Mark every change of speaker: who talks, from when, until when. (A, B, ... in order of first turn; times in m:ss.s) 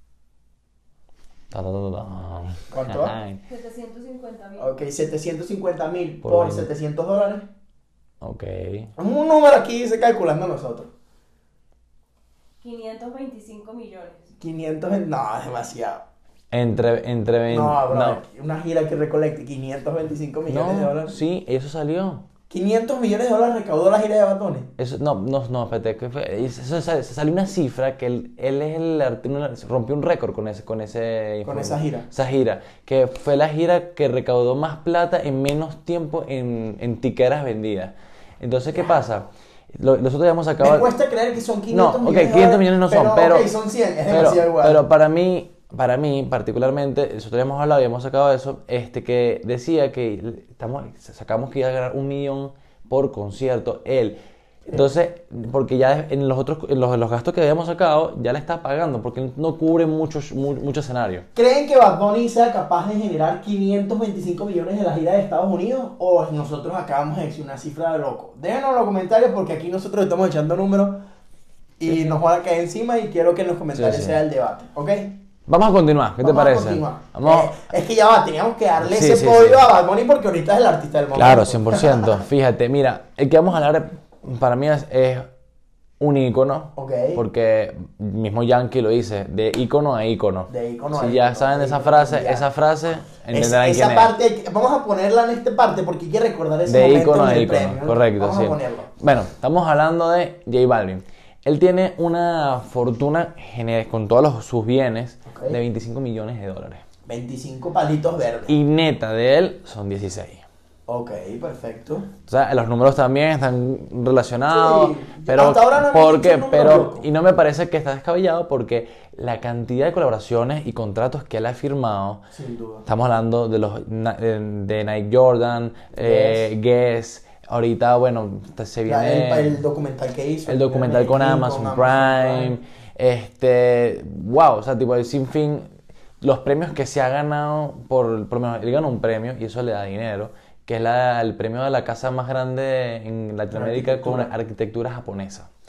0:01.5-0:03.4 A
0:02.7-0:03.2 B
0:03.5-0:04.7 C
0:04.6-0:07.5 B
0:06.2-0:06.7 A
0:08.2-0:08.9 A
0:09.0-0:10.9 B
0:12.6-0:14.3 C
0:14.4-0:16.0 B
0:16.5-0:18.2 A
0:17.5-0:21.2 B
0:20.4-0:22.2 A
0:22.5-0:24.7 B
0:24.8-0:40.9 A
0:31.4-0:32.1 B
0:40.6-0:44.8 B
0:41.7-0:43.5 A
0:44.1-0:54.2 A
0:54.7-1:01.2 A
1:01.3-1:11.0 B
1:11.8-1:15.2 B
1:13.7-1:14.2 A
1:15.5-1:17.6 A
1:16.2-1:22.2 B
1:18.8-1:19.7 A
1:21.1-1:25.3 A
1:26.0-1:34.1 A
1:26.8-1:27.2 B
1:30.5-1:32.4 B
1:33.3-1:38.9 B
1:36.6-1:46.8 A
1:45.2-1:45.6 B
1:47.0-1:48.5 B
1:48.5-1:50.4 A
1:50.9-1:52.1 B
1:52.3-2:02.2 A
1:54.5-1:57.0 B
2:02.3-2:02.8 B
2:02.8-2:09.6 A
2:06.0-2:06.5 B
2:08.9-2:12.6 B
2:10.5-2:15.7 A
2:16.2-2:25.5 A
2:23.5-2:24.3 B